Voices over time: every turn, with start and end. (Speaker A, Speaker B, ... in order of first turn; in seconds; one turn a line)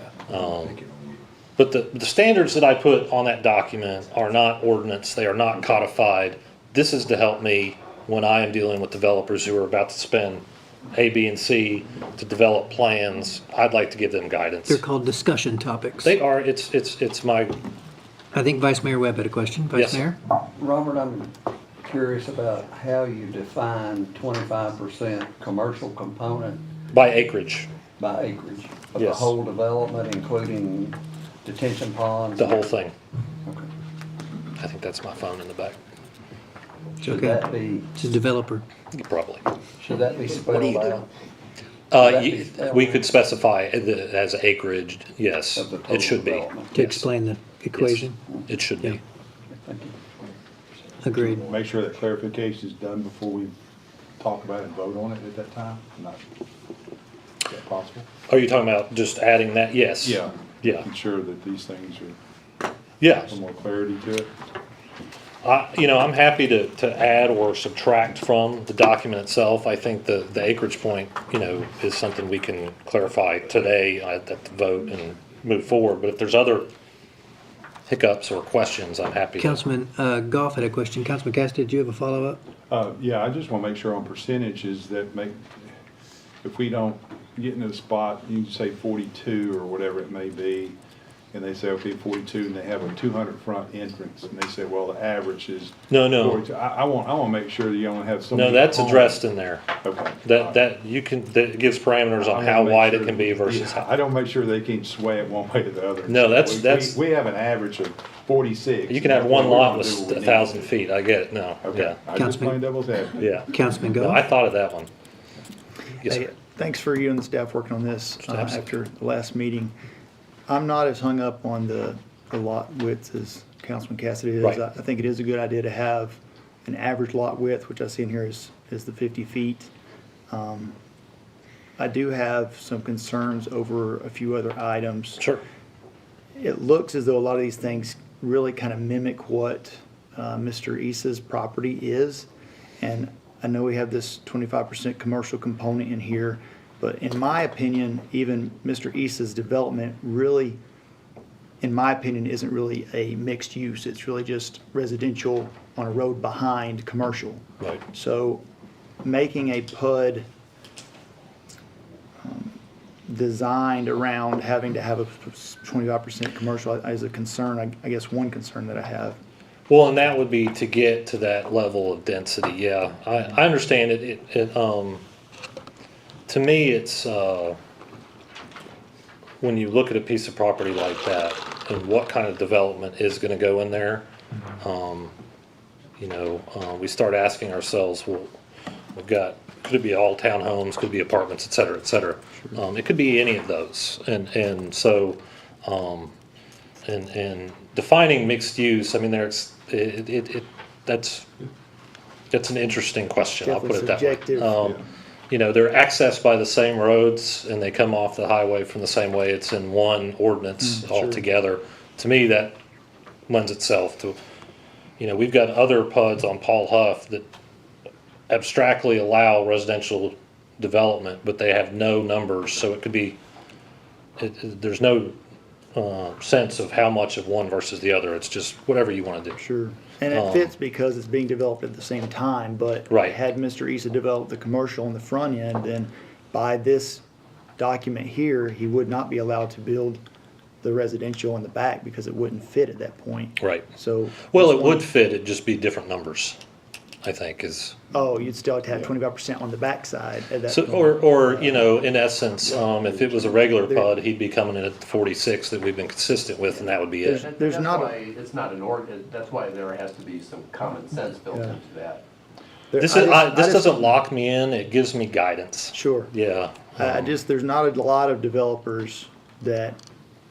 Speaker A: 0.3-0.8
Speaker B: 0.7-1.0
Speaker A: 1.6-14.8
Speaker C: 14.7-16.2
Speaker A: 16.0-17.6
Speaker C: 18.3-20.2
Speaker A: 19.7-20.1
Speaker D: 20.4-26.6
Speaker A: 26.9-27.7
Speaker D: 28.0-32.8
Speaker A: 28.9-29.3
Speaker A: 32.4-32.9
Speaker D: 33.4-33.7
Speaker A: 34.6-35.8
Speaker D: 37.0-38.0
Speaker C: 37.0-37.4
Speaker C: 38.0-38.6
Speaker A: 38.9-39.5
Speaker D: 39.8-41.1
Speaker C: 40.5-41.0
Speaker A: 41.9-47.1
Speaker D: 41.9-43.2
Speaker D: 45.5-46.9
Speaker C: 46.7-48.2
Speaker A: 47.8-49.0
Speaker D: 49.5-50.0
Speaker C: 51.0-51.4
Speaker B: 51.3-53.5
Speaker B: 54.2-56.2
Speaker B: 57.5-58.1
Speaker A: 58.3-60.9
Speaker B: 60.0-62.2
Speaker A: 63.0-63.3
Speaker B: 63.3-64.3
Speaker A: 65.4-76.7
Speaker A: 77.9-79.6
Speaker C: 79.4-82.4
Speaker B: 82.7-85.5
Speaker B: 86.4-90.8
Speaker B: 91.3-99.2
Speaker A: 95.9-96.4
Speaker A: 98.3-99.7
Speaker B: 99.8-100.6
Speaker A: 100.2-103.9
Speaker B: 102.2-110.8
Speaker A: 106.1-107.0
Speaker A: 108.9-112.0
Speaker B: 111.6-113.5
Speaker C: 112.1-112.6
Speaker A: 113.2-114.9
Speaker C: 113.5-114.2
Speaker A: 116.0-116.3
Speaker E: 116.0-119.7
Speaker A: 118.2-118.6
Speaker E: 120.5-129.7
Speaker E: 130.3-130.8
Speaker E: 131.8-135.3
Speaker E: 136.4-142.3
Speaker E: 142.8-150.6
Speaker E: 151.6-158.4
Speaker E: 159.0-160.2
Speaker E: 162.2-169.2
Speaker A: 169.7-175.0
Speaker A: 176.3-177.6
Speaker A: 179.4-184.1
Speaker A: 184.6-185.1
Speaker A: 186.0-188.3
Speaker A: 188.9-196.1
Speaker A: 196.9-201.3
Speaker A: 202.3-204.8
Speaker E: 203.4-204.7
Speaker A: 205.3-212.6
Speaker E: 210.6-211.2
Speaker A: 213.3-214.2
Speaker A: 215.0-217.2
Speaker A: 218.3-223.2
Speaker A: 224.2-225.2
Speaker A: 225.8-229.4
Speaker E: 229.4-237.0
Speaker A: 230.1-230.5
Speaker A: 232.9-233.2
Speaker E: 237.6-240.0
Speaker E: 240.6-244.9
Speaker A: 243.4-243.7
Speaker A: 244.3-246.4
Speaker A: 247.0-247.8
Speaker E: 247.9-251.7
Speaker A: 250.5-257.2
Speaker E: 252.7-253.9
Speaker E: 256.9-257.9
Speaker F: 257.2-262.0
Speaker E: 261.3-261.6
Speaker E: 262.7-264.0
Speaker A: 262.8-267.1
Speaker E: 265.7-266.1
Speaker E: 266.8-269.8